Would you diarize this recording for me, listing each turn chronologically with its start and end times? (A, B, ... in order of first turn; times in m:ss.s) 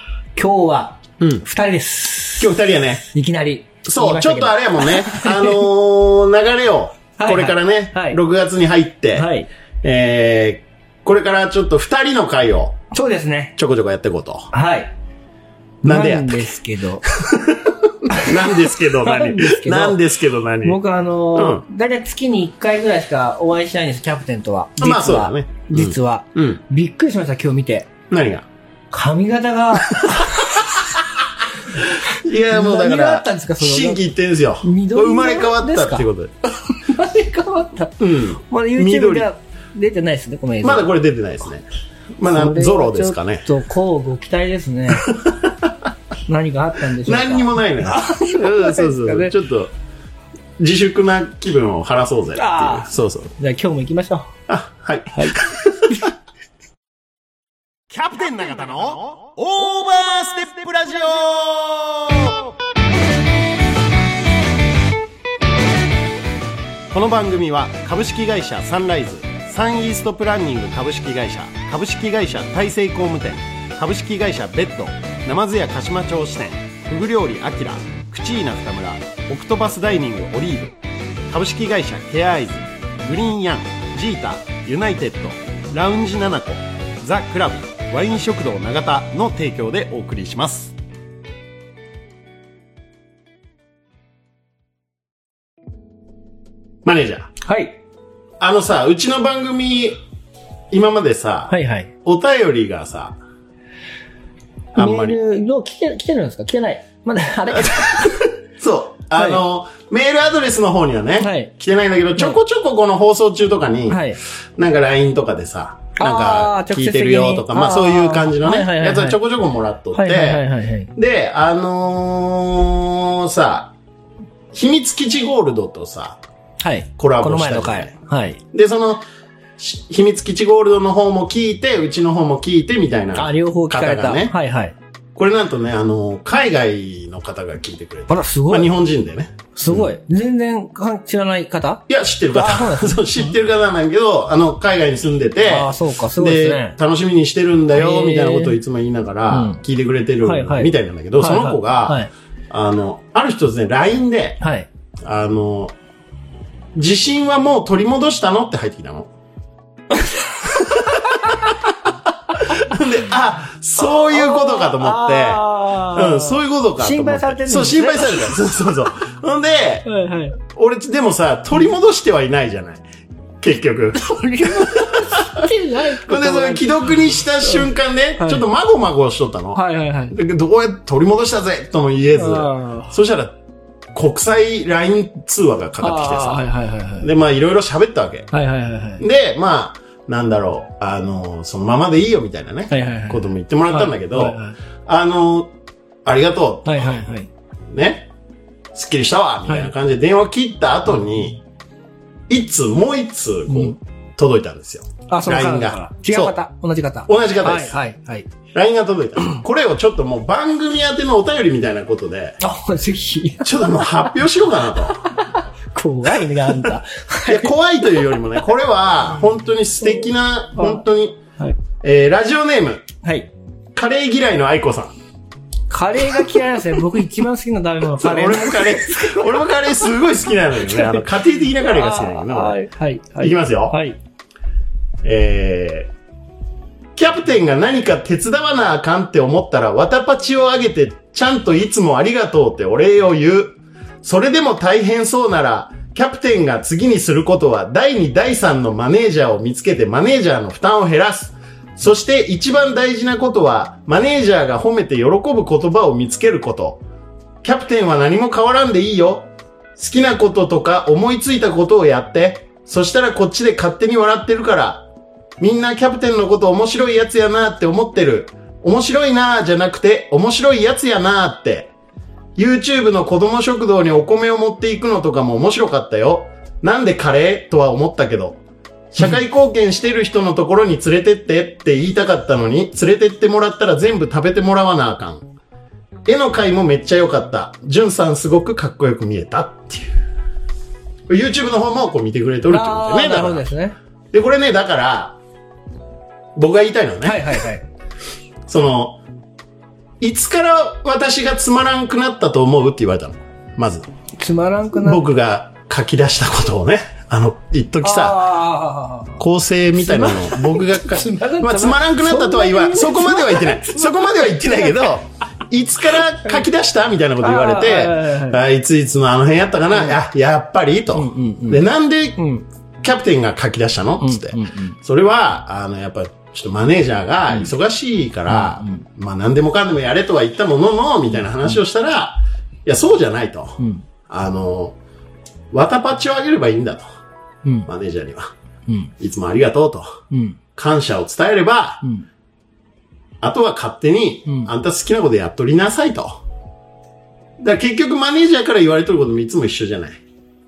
0:00.4-0:05.6 A
0:02.4-0:03.0 B
0:03.8-0:09.3 B
0:07.2-0:08.2 A
0:09.2-0:09.5 A
0:09.8-0:12.8 B
0:12.9-0:13.6 A
0:13.6-0:14.5 B
0:14.5-0:14.9 A
0:15.8-0:17.0 A
0:15.8-0:20.8 B
0:18.1-0:20.0 A
0:20.6-0:27.9 A
0:21.4-0:21.6 B
0:24.8-0:26.6 B
0:28.1-0:28.5 B
0:28.9-0:30.8 A
0:31.8-0:36.4 B
0:32.4-0:34.1 A
0:34.6-0:36.1 A
0:36.7-0:40.9 A
0:38.0-0:39.3 B
0:40.6-0:41.6 B
0:42.2-0:43.5 B
0:42.3-0:45.1 A
0:45.0-0:45.7 B
0:46.3-0:49.4 A
0:47.0-0:49.7 B
0:50.6-0:53.3 B
0:52.4-0:54.3 A
0:54.5-0:56.0 B
0:55.1-0:56.1 A
0:57.9-1:02.4 B
1:06.9-1:20.8 B
1:21.3-1:30.8 B
1:36.8-1:37.4 B
1:37.4-1:37.8 A
1:38.4-1:40.0 B
1:40.7-1:43.2 B
1:41.5-1:41.9 A
1:44.8-1:45.2 B
1:44.8-1:48.3 A
1:47.6-2:00.4 B
1:49.2-1:49.4 A
1:51.2-1:51.5 A
1:53.9-1:54.2 A
1:56.0-1:59.2 A
1:59.9-2:00.9 A
2:01.0-2:03.7 B
2:04.5-2:06.2 B
2:06.6-2:08.4 A
2:07.0-2:07.9 B
2:08.5-2:09.0 B
2:09.6-2:14.4 B
2:13.2-2:14.8 A
2:15.2-2:19.9 B
2:18.1-2:18.7 A
2:19.6-2:23.3 A
2:21.9-2:34.4 B
2:25.5-2:26.8 A
2:27.7-2:28.6 A
2:29.3-2:29.6 A
2:30.2-2:32.1 A
2:34.4-2:34.7 A
2:35.0-2:35.8 B
2:36.8-2:39.1 B
2:39.9-2:41.2 A
2:40.6-2:41.5 B
2:42.3-2:49.9 B
2:43.8-2:48.4 A
2:49.9-2:50.4 A
2:50.4-2:52.8 B
2:53.4-3:03.4 B
2:54.0-2:58.5 A
2:59.6-3:00.2 A
3:02.1-3:02.9 A
3:04.0-3:06.5 B
3:05.8-3:07.1 A
3:07.0-3:08.3 B
3:08.3-3:09.0 A
3:09.0-3:15.5 B
3:12.7-3:14.6 A
3:16.0-3:16.9 B
3:16.6-3:17.3 A
3:17.7-3:18.1 B
3:18.8-3:21.4 B
3:22.3-3:26.4 B
3:23.5-3:23.8 A
3:25.1-3:28.3 A
3:27.1-3:27.8 B
3:28.5-3:32.4 B
3:32.4-3:34.2 A
3:33.4-3:35.1 B
3:34.9-3:37.5 A
3:37.3-3:41.2 B
3:40.6-3:40.8 A
3:41.8-3:42.9 B
3:43.0-3:43.3 A
3:43.8-3:44.9 B
3:45.7-3:49.7 A
3:48.0-3:52.6 B
3:50.6-3:51.1 A
3:51.6-3:54.0 A
3:53.2-3:53.8 B
3:55.0-3:55.9 B
3:57.0-4:16.8 B
4:17.4-4:24.9 B
4:25.4-4:31.7 B
4:32.4-4:38.4 B
4:38.9-4:45.3 B
4:46.1-4:50.0 B
4:51.1-4:53.5 B
4:52.5-4:53.8 A
4:54.1-4:55.2 B
4:56.4-4:57.4 B
4:57.0-4:57.6 A
4:58.5-4:59.0 B
5:00.0-5:03.9 B
5:04.2-5:05.1 A
5:04.8-5:08.2 B
5:07.8-5:09.2 A
5:09.2-5:22.2 B
5:09.8-5:14.9 A
5:17.2-5:18.4 A
5:19.7-5:20.0 A
5:20.9-5:21.6 A
5:22.2-5:22.5 A
5:22.8-5:34.8 B
5:24.0-5:24.8 A
5:28.3-5:28.8 A
5:33.6-5:33.8 A
5:35.5-5:36.8 B
5:37.4-5:37.7 A
5:37.7-5:38.3 B
5:38.7-5:38.9 A
5:39.0-5:40.0 B
5:40.1-5:40.4 A
5:40.6-5:41.9 B
5:43.2-5:46.2 B
5:47.4-5:50.0 B